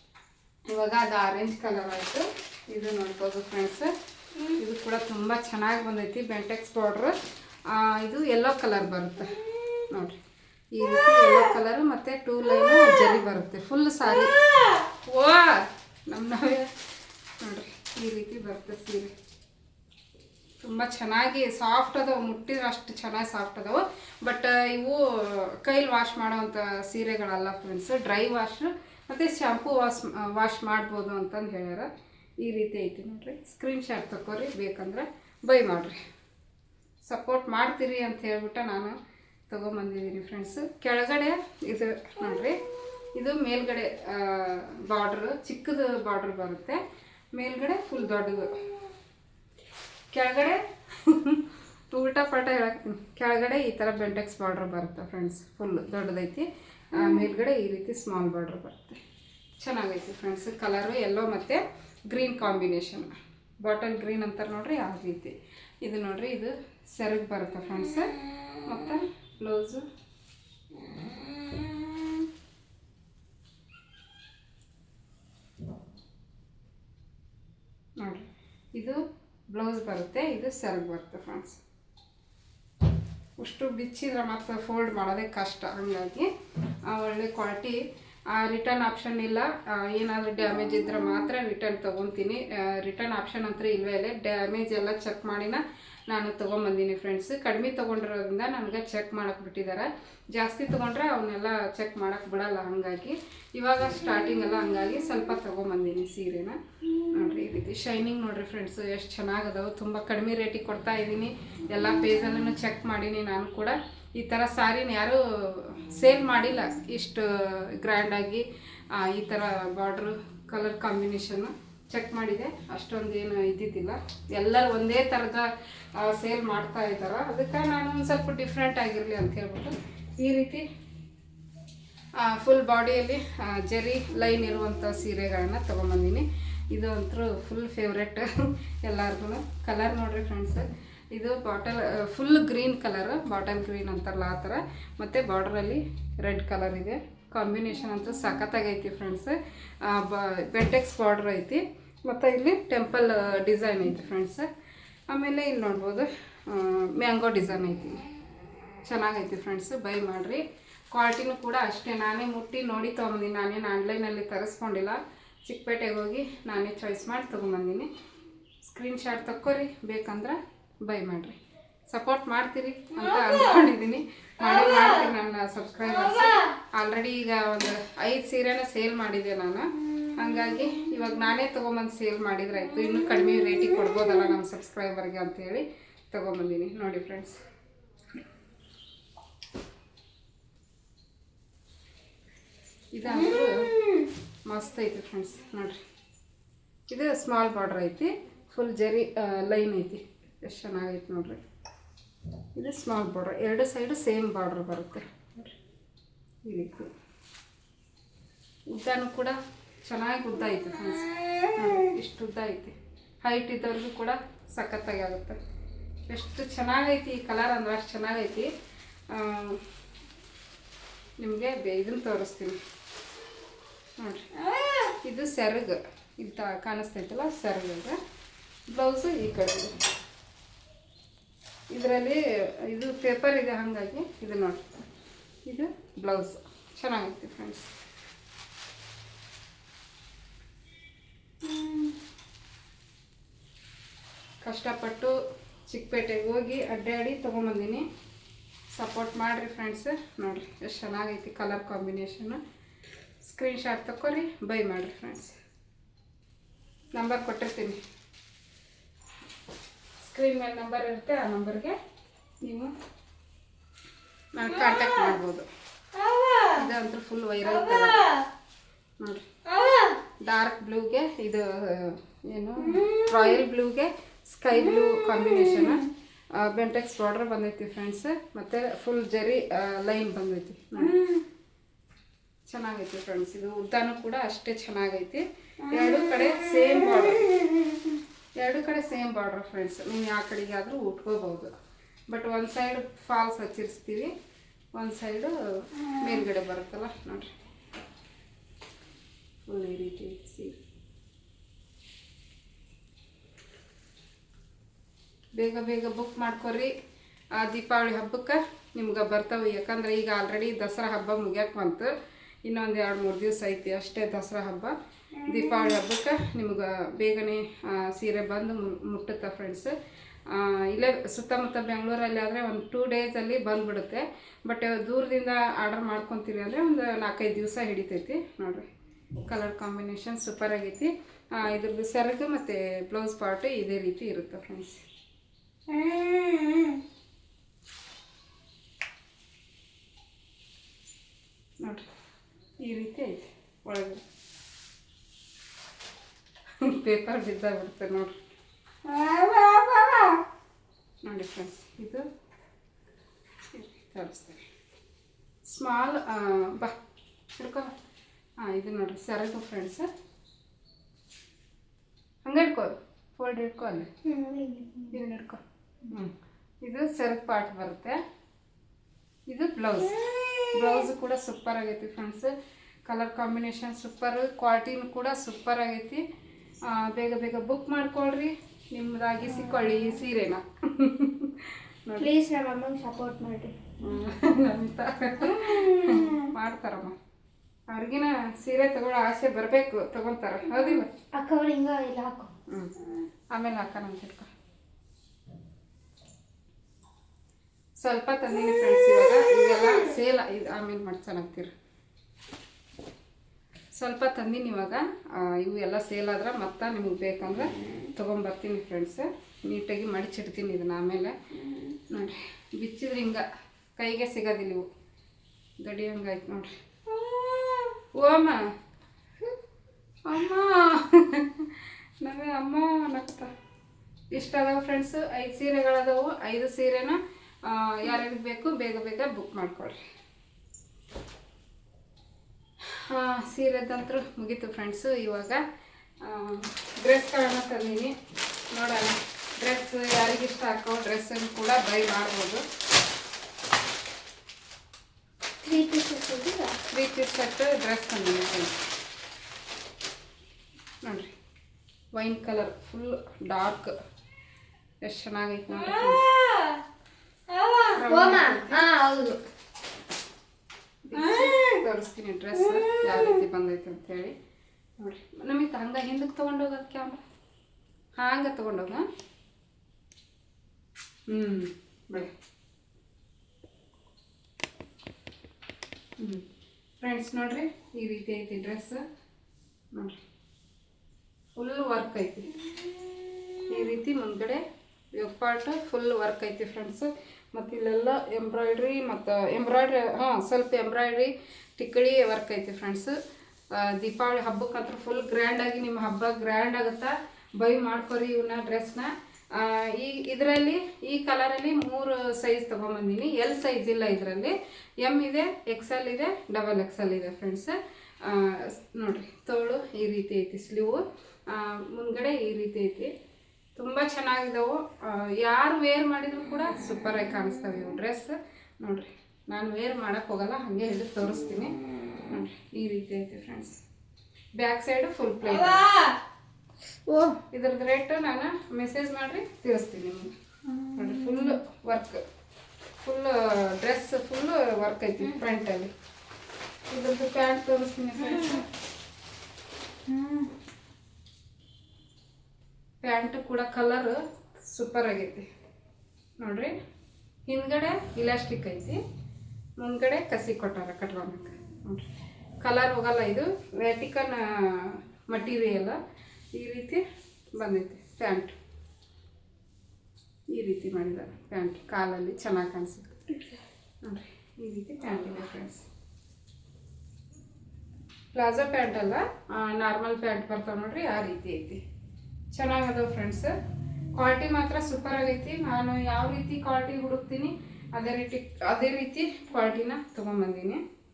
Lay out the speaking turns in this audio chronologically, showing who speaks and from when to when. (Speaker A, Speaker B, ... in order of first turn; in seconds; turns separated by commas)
Speaker A: 0.7-3.9, Speaker A: 4.5-7.1, Speaker A: 7.7-9.4, Speaker A: 9.9-10.2, Speaker A: 10.7-14.4, Speaker A: 14.9-16.7, Speaker A: 17.4-19.1, Speaker A: 20.6-31.9, Speaker A: 32.4-36.0, Speaker A: 37.0-39.0, Speaker A: 39.5-42.6, Speaker A: 43.1-46.8, Speaker A: 47.3-48.6, Speaker A: 50.1-59.0, Speaker A: 59.6-63.1, Speaker A: 63.6-68.1, Speaker A: 68.6-69.8, Speaker A: 78.0-79.0, Speaker A: 79.5-81.6, Speaker A: 83.4-86.3, Speaker A: 86.9-87.8, Speaker A: 88.3-130.6, Speaker A: 132.2-154.5, Speaker A: 155.1-158.0, Speaker A: 158.8-167.9, Speaker A: 168.6-171.4, Speaker A: 171.9-187.4, Speaker A: 192.9-193.6, Speaker A: 194.5-195.8, Speaker A: 196.9-201.4, Speaker A: 202.6-205.5, Speaker A: 206.4-206.9, Speaker A: 208.7-215.4, Speaker A: 216.1-218.5, Speaker A: 219.1-219.6, Speaker A: 221.2-222.6, Speaker A: 224.0-224.2, Speaker A: 225.0-228.0, Speaker A: 228.7-229.7, Speaker A: 231.7-234.6, Speaker A: 235.5-237.7, Speaker A: 244.4-245.1, Speaker A: 245.7-247.8, Speaker A: 248.7-252.4, Speaker A: 253.2-255.3, Speaker A: 256.9-257.8, Speaker A: 260.0-261.8, Speaker A: 262.4-262.7, Speaker A: 264.3-265.5, Speaker A: 266.5-268.1, Speaker A: 270.2-281.0, Speaker A: 282.5-287.4, Speaker A: 288.4-291.5, Speaker A: 292.1-294.1, Speaker A: 294.7-297.3, Speaker A: 299.5-300.5, Speaker A: 305.4-306.7, Speaker A: 307.4-311.9, Speaker A: 312.4-319.7, Speaker A: 320.3-328.6, Speaker A: 329.3-334.8, Speaker B: 335.7-336.7, Speaker A: 342.6-344.0, Speaker A: 346.6-348.1, Speaker B: 348.8-350.2, Speaker A: 351.0-352.0, Speaker A: 353.5-354.4, Speaker A: 355.5-356.7, Speaker A: 357.4-357.7, Speaker A: 358.4-359.9, Speaker A: 362.2-363.9, Speaker B: 364.0-365.0, Speaker A: 364.9-368.0, Speaker A: 369.3-372.3, Speaker B: 370.0-370.5, Speaker A: 372.9-376.0, Speaker A: 376.6-382.1, Speaker B: 382.0-383.5, Speaker A: 383.8-386.9, Speaker B: 385.2-386.2, Speaker A: 387.7-390.9, Speaker B: 391.1-392.3, Speaker A: 393.3-394.3, Speaker A: 397.8-401.5, Speaker A: 403.8-411.1, Speaker A: 411.9-413.2, Speaker A: 413.8-414.6, Speaker A: 415.6-416.5, Speaker B: 416.9-417.7, Speaker A: 417.9-418.4, Speaker A: 420.1-423.3, Speaker A: 424.1-429.8, Speaker A: 432.7-435.4, Speaker A: 436.0-437.9, Speaker A: 438.5-442.4, Speaker B: 445.4-446.6, Speaker A: 446.7-448.6, Speaker A: 450.8-451.1, Speaker A: 451.9-453.7, Speaker A: 454.8-456.1, Speaker B: 457.3-459.2, Speaker A: 457.7-458.6, Speaker A: 460.8-464.1, Speaker B: 461.0-461.5, Speaker A: 464.8-467.0, Speaker A: 468.0-468.9, Speaker A: 471.1-472.1, Speaker A: 476.0-476.2, Speaker A: 476.8-478.8, Speaker A: 481.4-482.3, Speaker A: 483.5-484.4, Speaker A: 484.9-492.9, Speaker A: 493.5-512.9, Speaker A: 513.5-521.5, Speaker A: 522.1-523.5, Speaker A: 524.4-525.7, Speaker B: 526.9-527.2, Speaker A: 527.3-530.1, Speaker B: 530.5-531.3, Speaker A: 530.8-532.0, Speaker A: 532.8-535.7, Speaker A: 536.7-538.4, Speaker B: 538.1-538.4, Speaker B: 539.9-540.3, Speaker A: 542.8-545.2, Speaker A: 546.2-546.5, Speaker A: 547.3-548.8, Speaker A: 549.6-551.9, Speaker A: 552.4-555.8, Speaker A: 556.3-556.8, Speaker A: 557.4-558.3, Speaker A: 560.3-563.0, Speaker A: 563.8-565.6, Speaker A: 568.1-571.6, Speaker A: 572.3-573.3, Speaker A: 573.9-580.6